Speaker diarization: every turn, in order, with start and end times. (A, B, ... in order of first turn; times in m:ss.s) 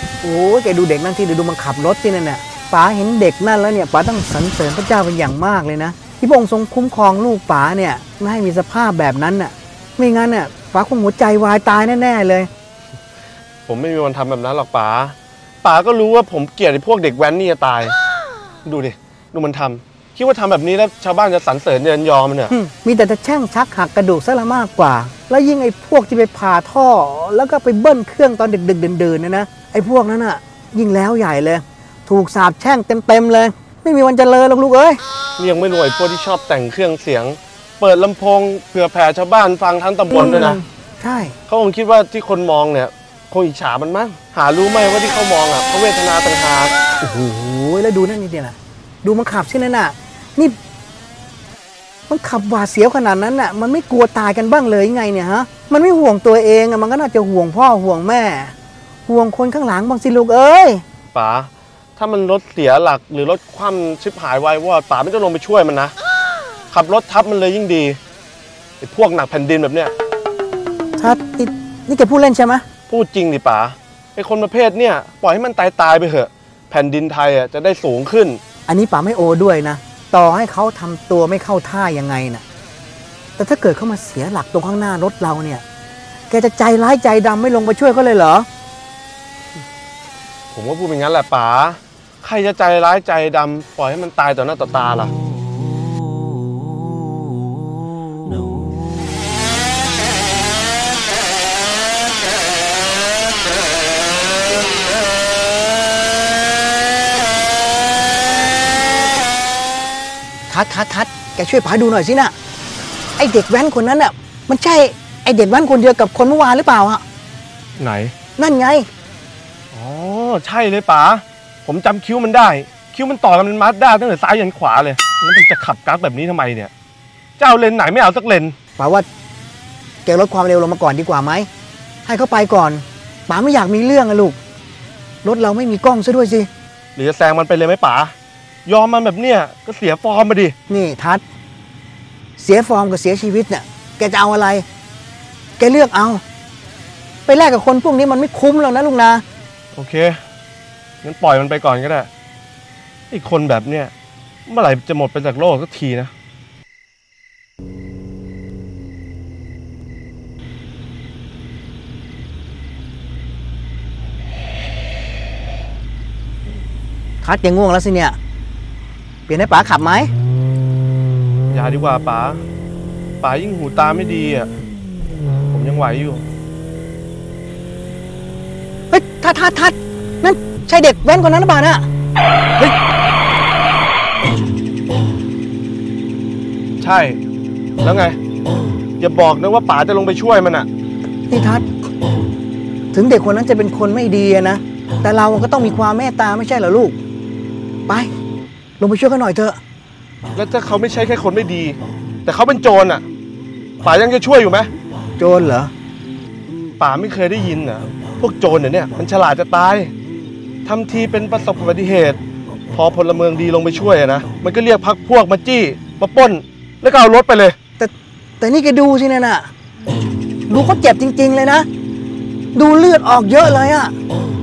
0:00.2-0:12.5 A
0:13.6-0:18.0 B
0:18.6-0:22.5 B
0:22.5-0:35.0 A
0:35.4-0:40.6 B
0:40.1-0:41.4 A
0:41.5-0:46.7 B
0:47.0-0:50.6 A
0:52.1-0:58.5 A
0:59.0-1:00.8 A
1:01.1-1:05.9 B
1:06.7-1:08.0 B
1:08.8-1:09.9 B
1:11.0-1:12.6 A
1:12.9-1:18.4 B
1:18.7-1:22.4 A
1:23.4-1:25.6 A
1:26.3-1:28.5 A
1:30.5-1:35.1 B
1:50.5-1:52.3 A
1:53.2-1:57.0 A
1:57.8-1:58.1 B
1:58.4-1:58.9 A
1:59.7-2:06.7 B
2:07.4-2:08.5 B
2:08.8-2:09.1 A
2:10.0-2:11.5 A
2:12.0-2:14.4 A
2:15.2-2:16.5 A
2:17.0-2:18.1 B
2:18.6-2:20.5 B
2:20.7-2:21.2 A
2:22.4-2:24.6 A
2:25.6-2:26.2 A
2:27.2-2:29.2 A
2:29.7-2:30.2 B
2:31.0-2:32.1 B
2:33.1-2:33.9 B
2:34.4-2:36.1 B
2:47.2-2:48.2 A
2:49.3-2:50.1 A
2:51.5-2:52.4 B
2:53.2-2:54.5 B
2:55.5-2:56.2 B
2:58.9-3:01.9 A
3:06.8-3:07.2 B
3:07.8-3:08.2 B
3:09.0-3:10.7 B
3:11.3-3:11.6 A
3:12.9-3:17.0 A
3:18.8-3:19.6 A
3:20.3-3:23.0 B
3:23.8-3:24.7 B
3:25.2-3:25.7 A
3:26.8-3:29.9 B
3:30.6-3:32.2 B
3:32.7-3:37.5 B
3:37.8-3:39.5 A
3:40.5-3:41.7 A
3:42.5-3:43.9 A